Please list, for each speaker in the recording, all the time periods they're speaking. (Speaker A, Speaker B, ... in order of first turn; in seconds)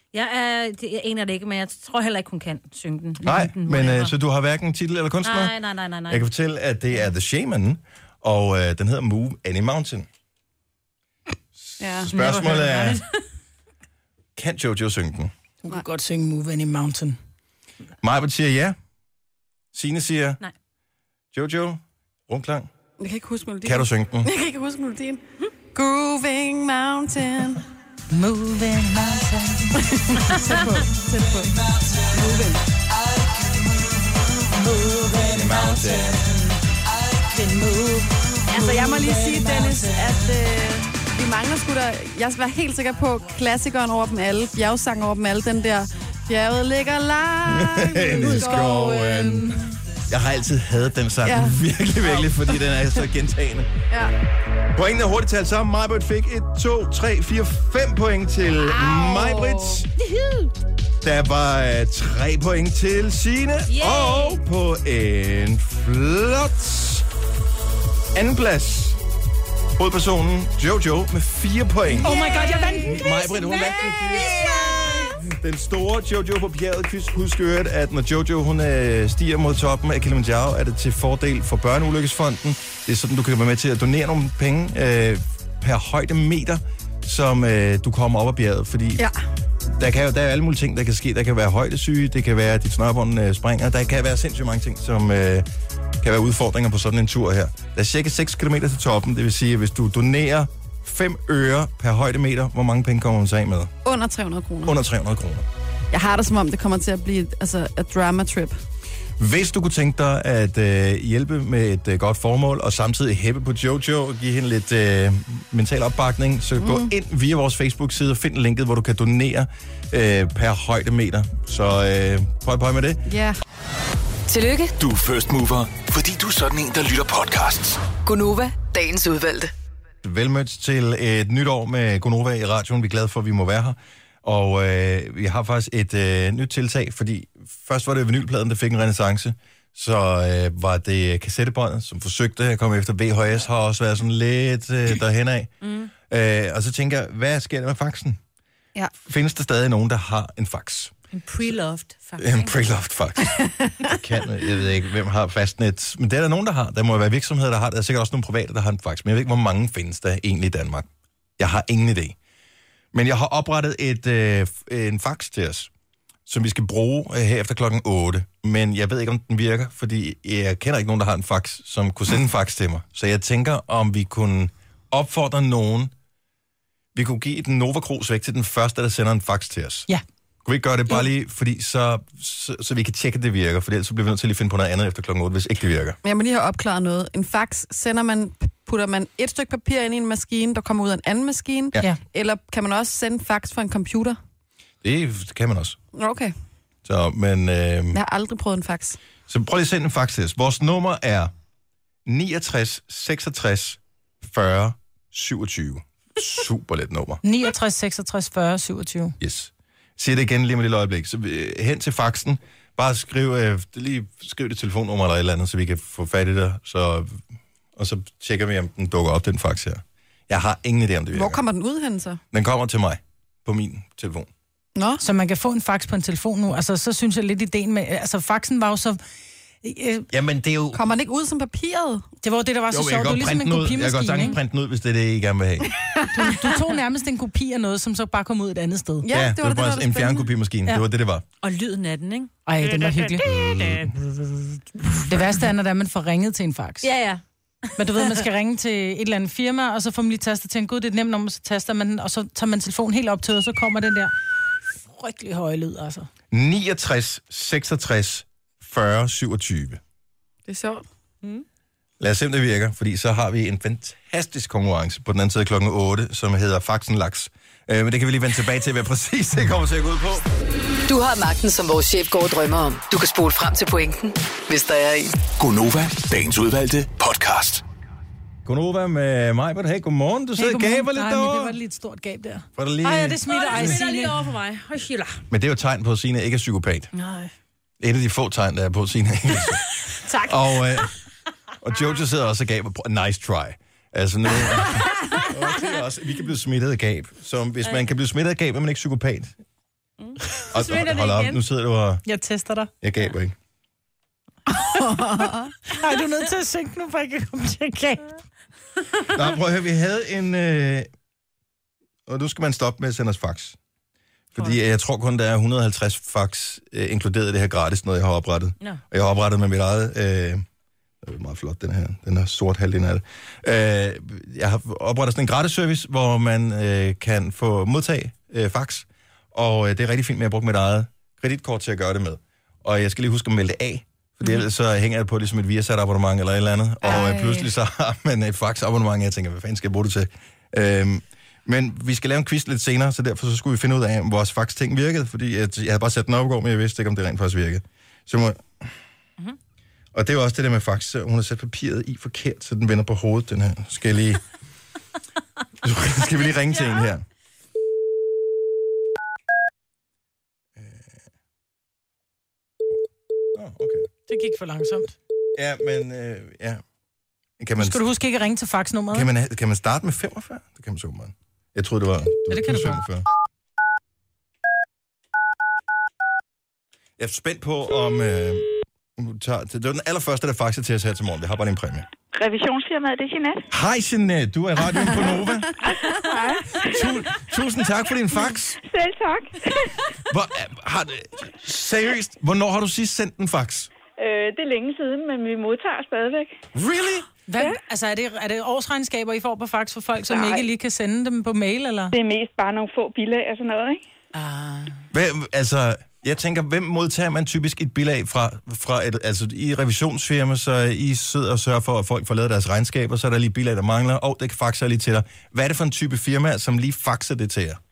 Speaker A: 0.1-4.1, 5.2-6.3, 12.1-13.2, 60.1-60.5, 63.7-64.4, 72.0-73.8, 145.6-145.9, 151.1-152.5, 241.4-243.8, 246.8-248.2, 283.3-285.2, 300.0-301.4
Speaker B: 3.2-5.5, 6.1-10.1, 11.6-13.0, 14.4-15.3, 18.0-18.8, 19.7-20.4, 21.3-22.7, 23.6-24.3, 35.2-36.4, 47.5-49.6, 50.1-53.7, 54.7-59.9, 61.0-67.1, 68.1-69.0, 69.8-89.0, 89.8-95.5, 96.0-103.7, 104.6-105.5, 109.2-123.1, 130.0-145.5, 146.1-148.2, 149.0-150.9, 152.2-160.9, 161.4-162.2, 162.9-165.7, 166.3-175.9, 176.9-179.9, 180.4-186.0, 194.8-195.8, 196.9-198.0, 199.3-201.3, 202.1-207.2, 209.2-217.2, 217.8-221.4, 222.3-224.3, 230.1-230.8, 232.7-235.7, 239.1-241.2, 243.2-243.9, 256.3-259.8, 262.0-270.3, 278.4-281.6, 282.6-283.8, 285.3-286.9, 287.8-289.6, 290.2-290.9, 291.6-299.3, 300.5-302.0, 302.8-303.4, 309.1-310.9, 312.1-313.6, 314.3-320.4, 321.0-348.7, 349.9-354.2, 355.6-357.1, 360.6-361.0, 363.3-363.9, 365.4-366.6, 367.4-367.8, 368.9-373.1, 377.0-381.9, 383.5-385.6, 386.6-388.6, 390.1-393.7, 396.5-397.1, 404.9-417.6
Speaker C: 11.8-12.1, 23.0-25.2, 25.7-27.6, 29.8-32.6, 38.5-48.9, 51.2-51.6, 58.5-59.8, 103.8-104.8, 105.9-108.6, 116.6-116.9, 123.1-123.4, 186.0-194.2, 195.9-196.3, 197.9-199.0, 221.1-222.2, 224.8-225.0, 230.7-232.1, 235.7-236.4, 239.0-240.3, 260.5-260.8, 304.5-305.5, 336.8-337.5
Speaker D: 15.6-17.2, 28.1-29.9, 37.3-40.0, 48.2-49.6, 72.0-74.9, 207.2-209.2, 225.0-229.0, 229.6-230.1, 232.2-234.4, 236.1-239.1, 242.5-243.2, 245.0-246.9, 247.8-254.1, 254.8-256.1, 280.4-284.1, 302.1-302.7, 305.7-308.2, 364.1-365.0, 367.6-369.1, 372.3-372.8, 397.3-402.0, 404.1-404.8
Speaker E: 124.3-124.8, 128.0-129.5, 270.9-275.1
Speaker F: 124.8-127.9, 275.2-277.6
Speaker G: 382.1-383.5, 385.6-387.0, 388.6-389.9, 394.0-396.3, 400.1-400.4, 401.9-403.8